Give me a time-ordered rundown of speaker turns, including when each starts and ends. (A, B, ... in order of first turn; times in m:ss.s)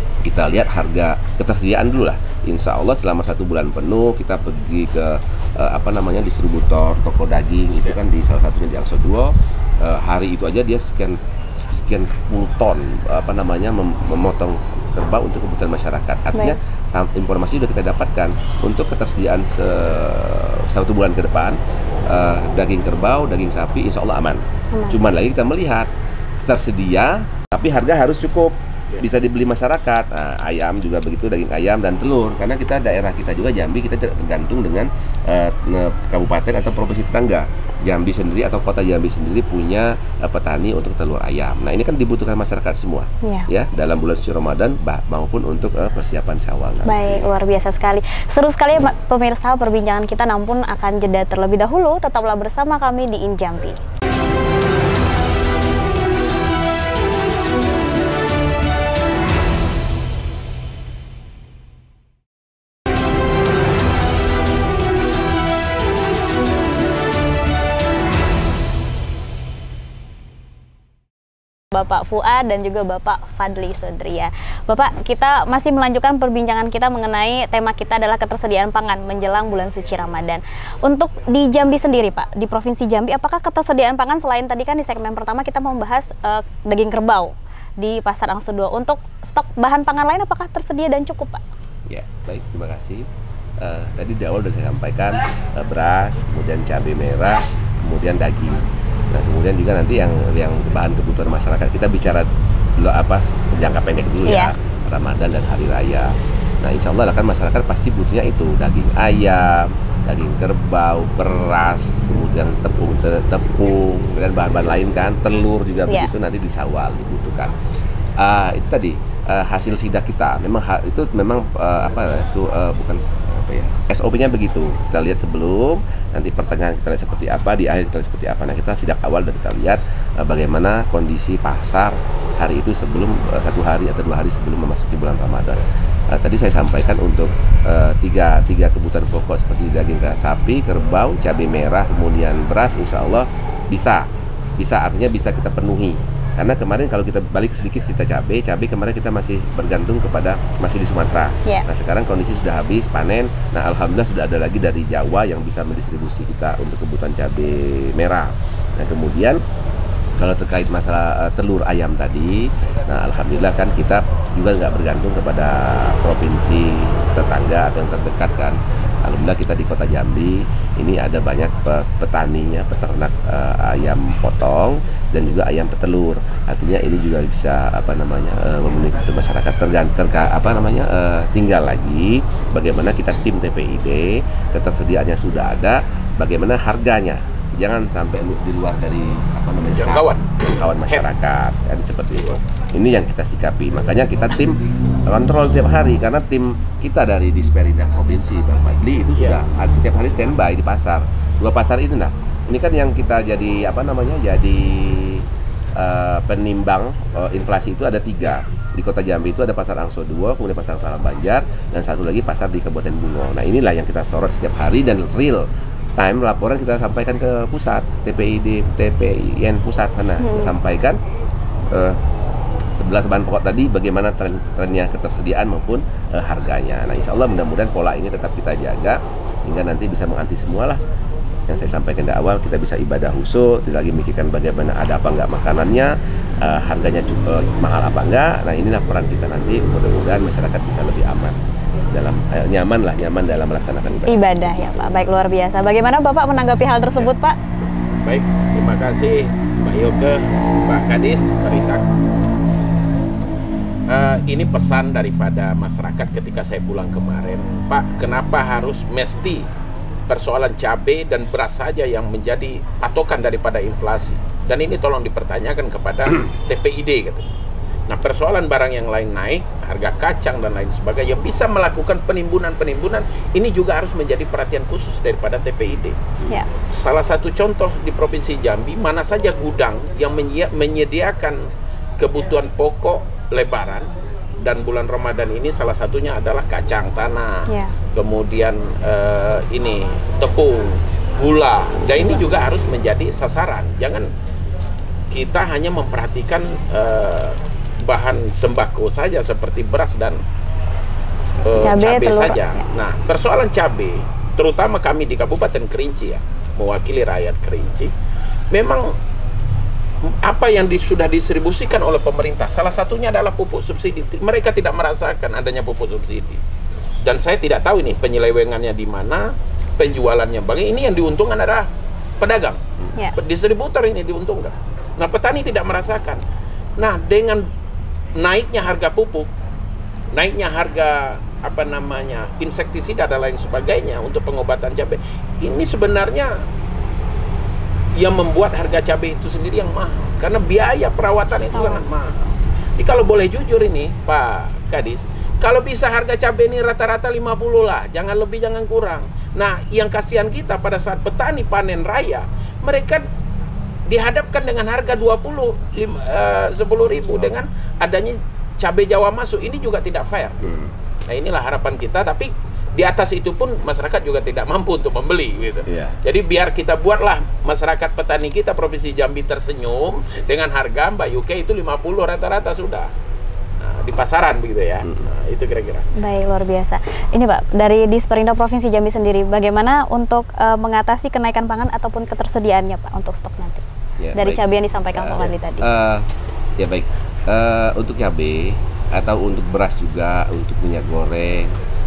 0:00.2-0:25.9 A
0:24.7-0:25.0 B
0:26.4-0:47.2 A
0:43.2-0:43.5 B
0:46.8-0:53.8 B
1:11.7-1:31.4 B
1:31.9-1:33.1 A
1:33.6-1:42.3 A
1:42.8-1:57.5 A
1:44.2-1:44.5 B
1:58.2-2:24.1 A
2:24.6-2:39.4 A
2:40.2-3:35.5 A
3:09.8-3:11.0 C
3:19.2-3:19.4 C
3:36.0-3:41.0 A
3:40.2-3:40.6 B
3:41.7-3:42.0 A
3:42.8-3:50.8 A
3:51.5-4:01.4 A
4:01.9-4:04.5 A
4:04.1-4:07.4 B
4:08.0-4:11.8 C
4:13.9-4:19.5 C
4:20.1-4:27.3 C
4:27.9-4:36.0 C
4:36.7-4:41.4 C
4:42.0-4:43.9 C
4:44.4-4:54.1 C
4:47.5-4:47.7 B
4:55.1-5:00.2 C
5:01.4-5:07.9 C
5:01.6-5:02.6 B
5:08.5-5:09.0 C
5:10.0-5:16.4 C
5:17.0-5:21.7 C
5:22.2-5:22.6 C
5:23.1-5:26.2 C
5:26.8-5:27.5 C
5:28.2-5:29.3 C
5:30.1-5:36.4 C
5:38.0-5:53.1 C
5:53.9-6:00.4 C
6:00.4-6:00.7 A
6:01.1-6:12.9 C
6:05.7-6:06.0 A
6:13.6-6:15.9 C
6:16.0-6:23.6 B
6:24.0-6:24.4 A
6:24.2-6:25.7 B
6:25.0-6:26.1 A
6:26.6-6:31.5 A